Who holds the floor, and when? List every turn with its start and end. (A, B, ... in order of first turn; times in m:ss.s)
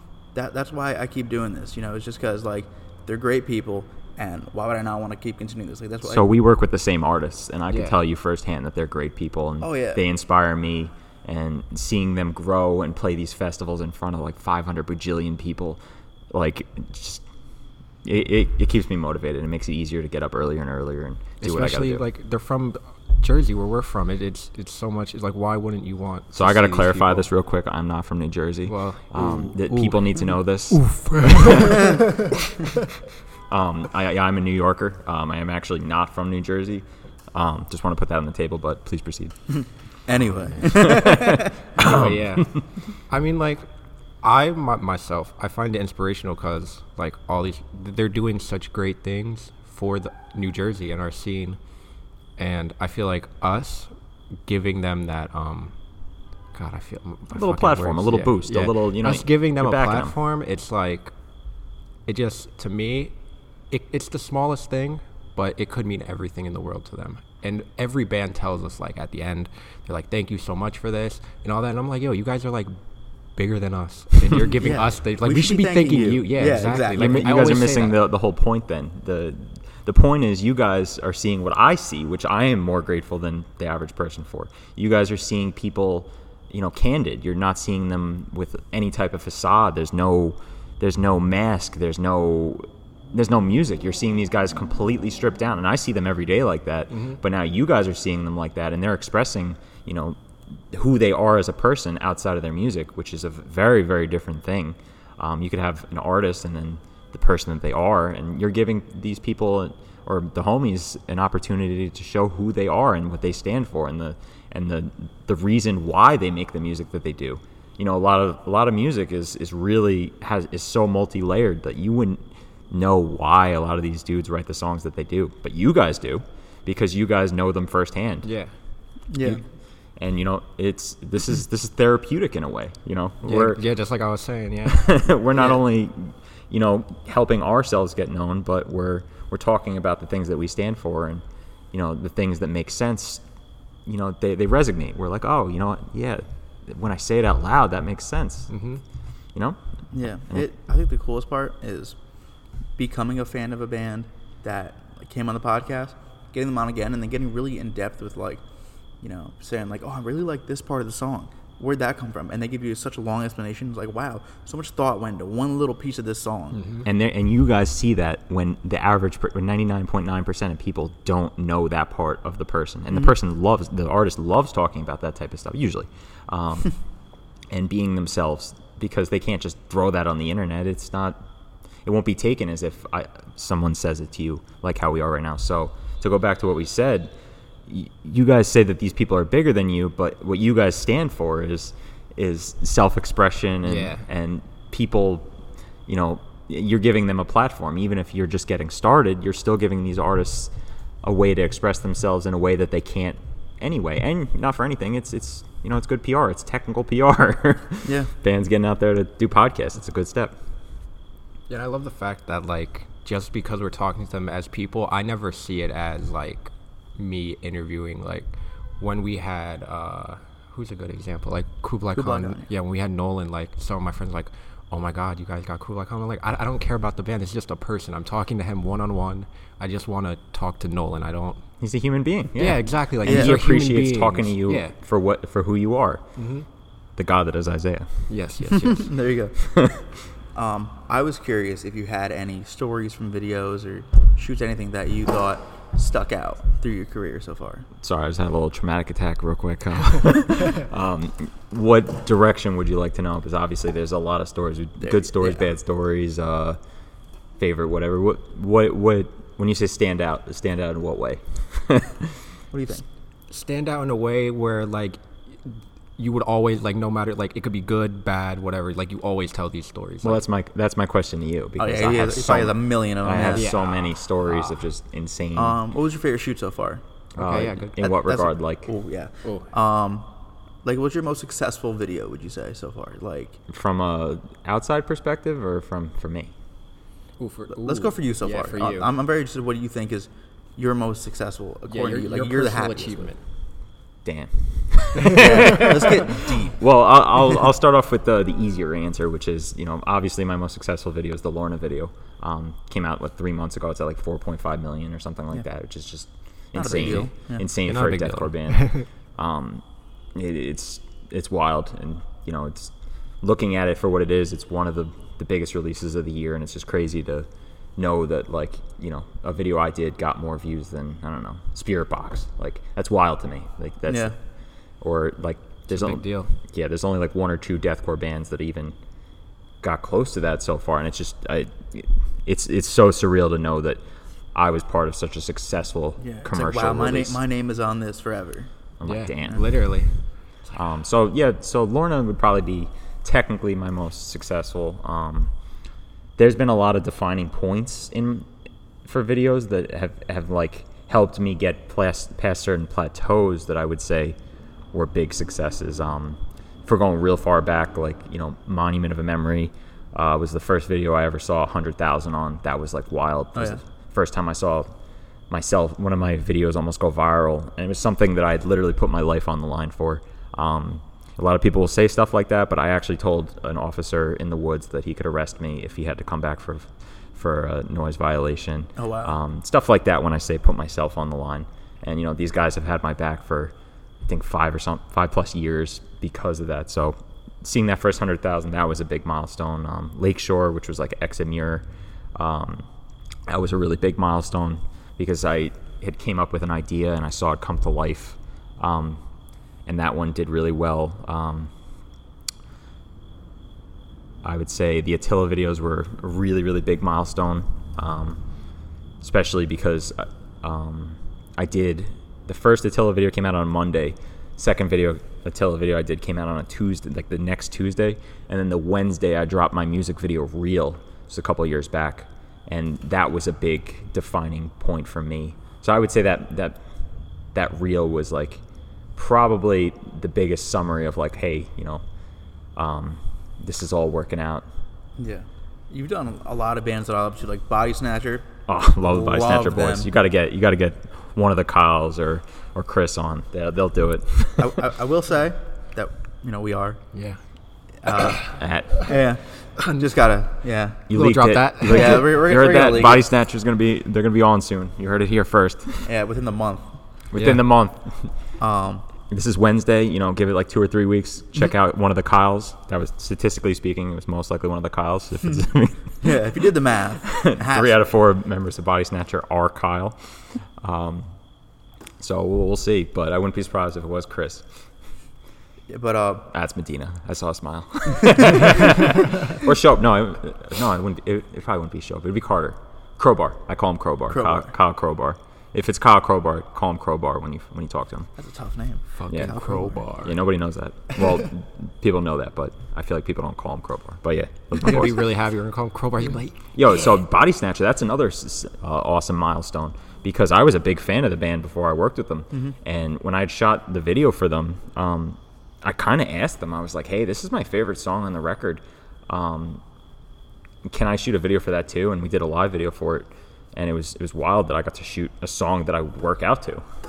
0:00.3-0:06.2 A
0:06.0-0:22.0 B
0:07.7-0:08.0 C
0:09.6-0:10.0 A
0:21.4-0:27.3 C
0:26.3-0:31.8 B
0:28.7-0:30.0 C
0:29.2-0:29.5 A
0:30.7-0:32.1 C
0:33.5-0:39.9 B
0:39.6-0:41.4 A
0:40.6-0:42.7 B
0:41.8-0:43.7 C
0:44.2-0:51.6 C
0:52.4-1:18.0 C
0:57.3-1:00.2 B
1:14.6-1:17.2 A
1:16.9-1:40.2 B
1:36.9-1:37.2 C
1:40.7-2:08.3 B
2:08.2-2:08.5 C
2:09.1-2:09.4 A
2:10.0-2:13.6 B
2:13.2-2:15.1 C
2:14.6-2:23.3 B
2:23.8-2:28.6 B
2:28.5-2:28.8 C
2:29.3-2:30.5 B
2:29.9-2:38.4 A
2:39.0-2:46.6 A
2:46.5-2:46.8 C
2:46.8-2:56.9 B
2:57.5-3:01.2 B
3:01.8-3:07.1 B
3:07.6-3:15.3 B
3:13.6-3:14.0 C
3:15.8-3:30.4 B
3:27.8-3:28.1 A
3:31.5-3:51.5 C
3:41.9-3:42.5 A
3:51.6-3:56.2 B
3:52.4-3:54.7 C
3:53.0-3:53.3 A
3:56.2-3:56.4 C
3:56.9-3:58.1 B
3:58.1-3:59.0 C
3:58.5-4:07.7 A
4:07.8-4:16.6 B
4:14.8-4:15.4 A
4:17.4-4:22.3 B
4:22.5-4:22.8 A
4:23.3-4:30.2 C
4:30.0-4:35.6 B
4:31.6-4:33.5 A
4:33.3-4:34.6 C
4:35.3-4:36.8 A
4:37.2-4:38.7 B
4:37.2-4:37.8 C
4:37.8-4:40.1 A
4:39.2-4:39.5 C
4:40.6-4:43.4 A
4:43.5-4:46.3 B
4:47.2-4:48.9 C
4:47.5-4:53.1 A
4:51.7-4:53.2 C
4:54.0-5:24.2 B
4:55.1-4:56.6 A
5:06.5-5:07.5 A
5:06.7-5:08.9 C
5:23.9-5:24.1 A
5:24.7-5:28.8 B
5:25.7-5:26.4 C
5:29.6-5:33.8 B
5:34.3-5:37.2 B
5:36.0-5:38.5 A
5:38.8-5:39.7 B
5:38.8-5:40.4 C
5:40.5-5:45.3 B
5:46.2-5:48.3 B
5:48.8-5:54.2 B
5:54.7-6:04.7 B
6:03.3-6:03.6 A
6:05.3-6:23.5 B
6:18.8-6:19.2 A
6:24.0-6:32.6 B
6:33.3-6:39.0 B
6:39.6-6:41.5 B
6:44.2-6:48.4 B
6:49.0-7:06.6 B
7:07.3-7:08.4 B
7:08.9-7:11.8 B
7:12.5-7:14.4 B
7:15.0-7:19.9 A
7:18.5-7:24.6 B
7:24.4-7:26.9 A
7:26.9-7:27.8 C
7:27.8-7:30.9 A
7:28.4-7:28.9 B
7:30.9-7:35.9 B
7:30.9-7:32.2 C
7:31.6-7:33.0 A
7:35.8-7:36.7 A
7:37.1-7:38.4 B
7:37.1-7:37.4 C
7:38.4-7:38.8 A
7:39.1-7:46.3 B
7:46.0-7:47.8 A
7:47.0-7:51.2 B
7:52.0-7:54.7 B
7:55.7-7:56.3 A
7:56.3-8:08.1 B
8:04.1-8:04.5 A
8:08.2-8:10.1 A
8:09.0-8:10.2 C
8:09.1-8:15.1 B
8:14.6-8:16.9 C
8:16.5-8:29.6 B
8:22.3-8:22.6 A
8:30.6-8:36.6 B